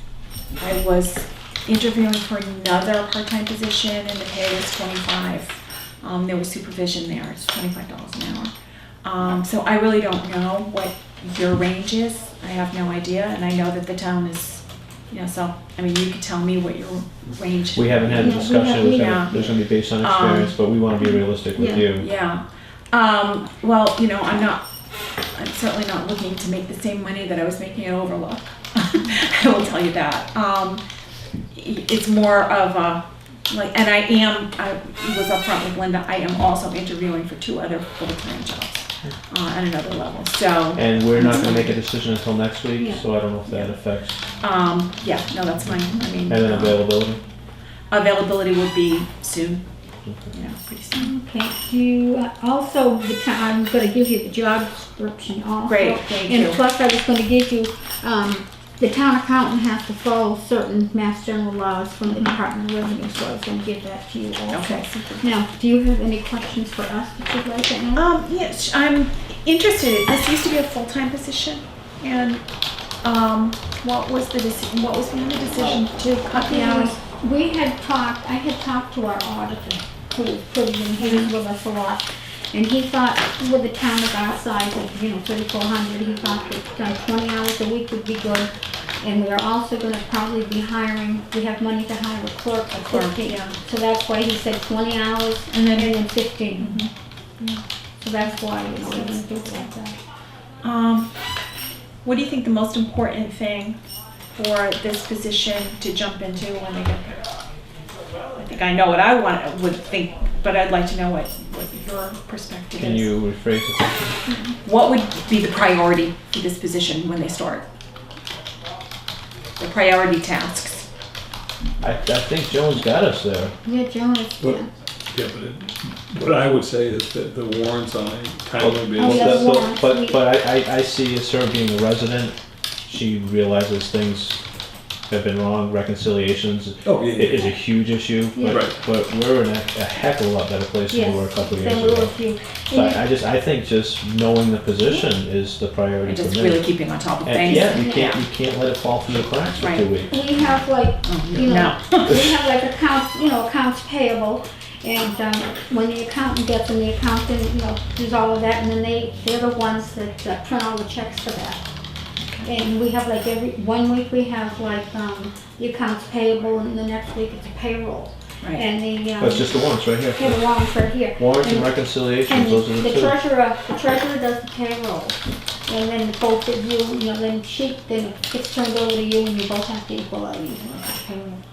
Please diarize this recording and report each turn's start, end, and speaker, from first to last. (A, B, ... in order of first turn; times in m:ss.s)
0:00.6-0:08.5 A
0:09.0-0:20.5 A
0:17.7-0:22.1 B
0:18.2-0:19.3 C
0:21.5-0:21.9 C
0:21.9-0:24.6 A
0:25.3-0:30.8 A
0:31.5-0:41.8 A
0:40.8-0:44.2 B
0:42.8-0:43.0 C
0:43.5-0:43.8 A
0:44.4-0:46.8 A
0:46.3-0:47.2 B
0:47.9-0:49.6 A
0:50.3-0:51.1 A
0:50.9-1:08.1 C
0:55.7-0:56.6 A
1:02.1-1:02.4 A
1:04.5-1:05.3 A
1:08.0-1:12.4 A
1:13.0-1:17.0 A
1:16.3-1:36.8 C
1:21.0-1:21.3 A
1:32.8-1:33.5 A
1:35.5-1:36.0 A
1:36.6-1:37.6 A
1:38.0-1:40.0 C
1:38.2-1:39.2 A
1:40.6-1:41.1 A
1:42.0-1:43.8 A
1:44.3-1:47.2 A
1:48.3-1:53.1 A
1:52.8-1:54.2 B
1:54.6-1:57.6 A
1:59.6-2:00.9 A
2:01.8-2:03.5 B
2:03.6-2:04.7 C
2:05.1-2:09.6 D
2:08.6-2:12.3 B
2:08.9-2:10.2 C
2:12.8-2:14.4 B
2:15.1-2:30.1 B
2:16.8-2:17.5 D
2:18.3-2:18.7 C
2:20.9-2:23.0 C
2:26.0-2:28.2 A
2:27.8-2:28.1 C
2:29.6-2:29.9 A
2:30.1-2:41.6 C
2:31.0-2:32.3 A
2:42.2-2:42.5 A
2:42.4-3:01.4 C
2:49.2-2:50.6 B
2:51.2-2:53.2 B